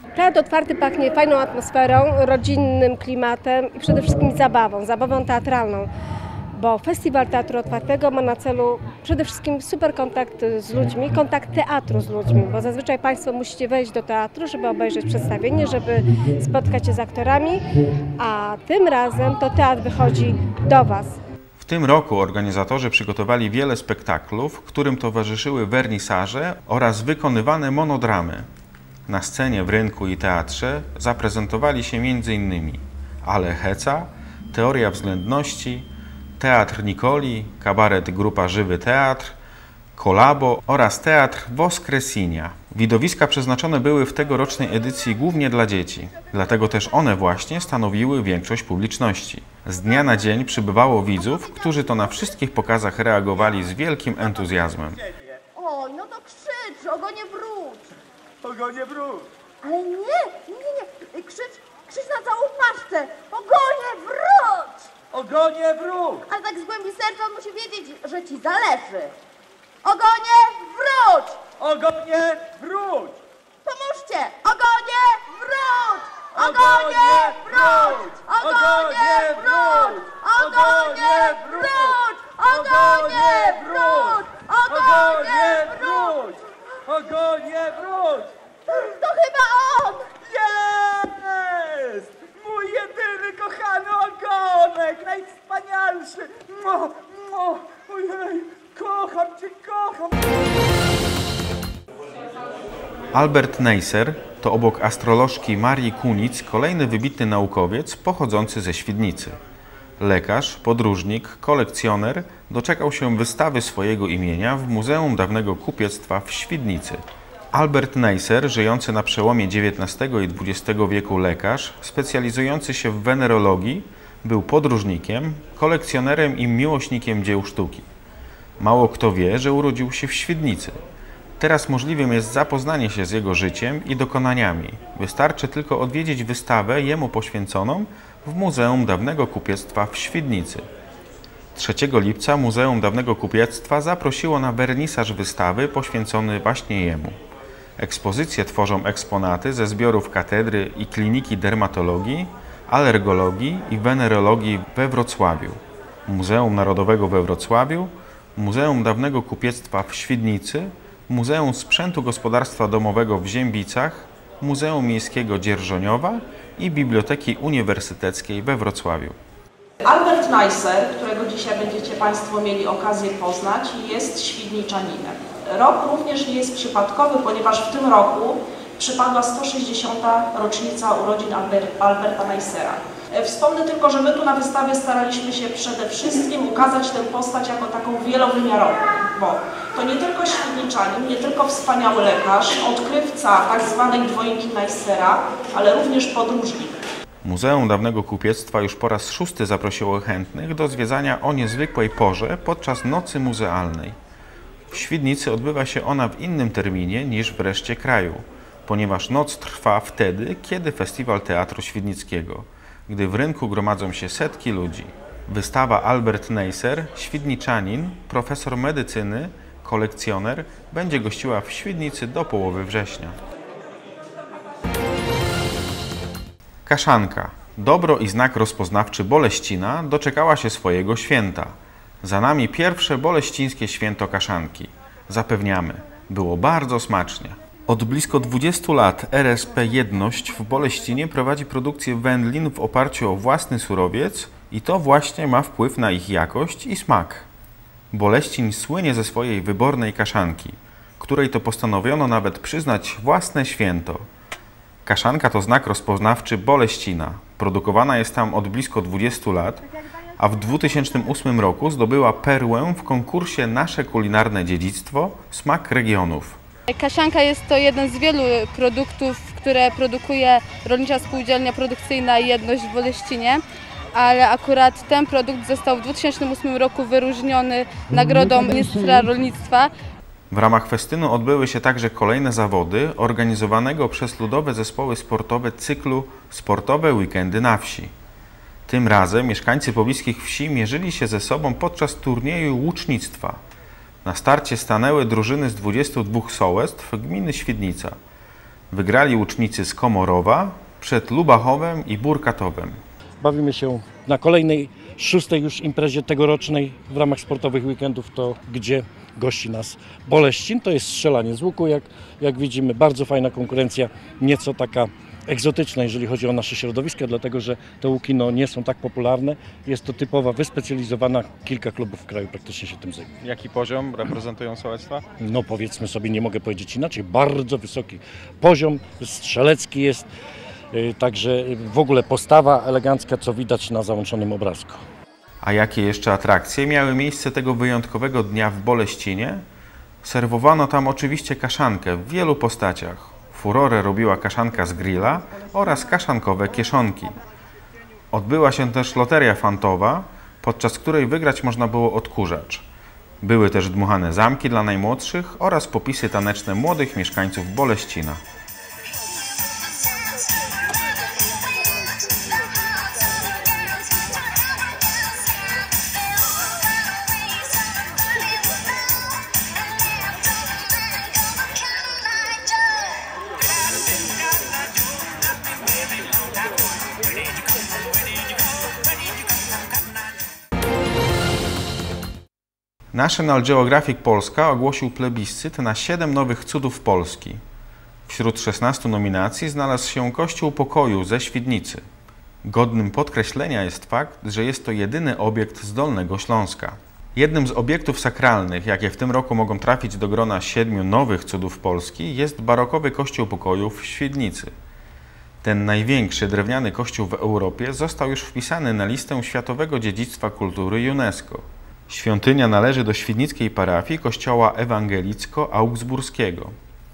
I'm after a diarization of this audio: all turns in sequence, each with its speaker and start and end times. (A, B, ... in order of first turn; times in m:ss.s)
0:00.2-0:05.9 A
0:06.6-0:17.6 A
0:18.2-0:21.2 A
0:21.6-0:28.5 B
0:29.1-0:39.4 B
0:40.0-0:55.0 B
0:55.6-0:58.0 C
0:58.5-0:59.2 D
0:59.6-1:05.0 C
1:05.1-1:06.3 D
1:06.3-1:09.1 C
1:09.8-1:11.5 C
1:11.6-1:13.1 D
1:13.6-1:26.2 C
1:16.3-1:28.3 D
1:28.7-1:30.2 C
1:30.2-1:40.1 D
1:43.1-1:49.4 B
1:50.0-2:07.9 B
2:08.6-2:10.8 B
2:11.4-2:20.7 B
2:21.6-2:27.2 B
2:27.8-2:49.2 B
2:49.8-3:16.8 E
3:17.2-3:24.0 B
3:24.7-3:43.2 B
3:46.7-4:07.3 B
4:07.9-4:14.1 B
4:14.8-4:19.6 B
4:20.2-4:26.4 B
4:26.7-4:33.4 F
4:33.9-4:39.7 F
4:40.3-4:47.9 B
4:48.7-4:53.4 B
4:54.0-4:58.0 B
4:58.7-5:02.8 B
5:03.2-5:23.1 G
5:23.2-5:25.0 B
5:25.2-5:30.1 G
5:30.7-5:34.8 G
5:35.4-5:39.4 B
5:40.0-5:47.2 B
5:48.1-5:52.6 B
5:53.2-5:58.2 B
6:22.9-6:27.4 B
6:28.1-6:31.8 B
6:32.4-6:44.5 B
6:45.4-6:56.6 B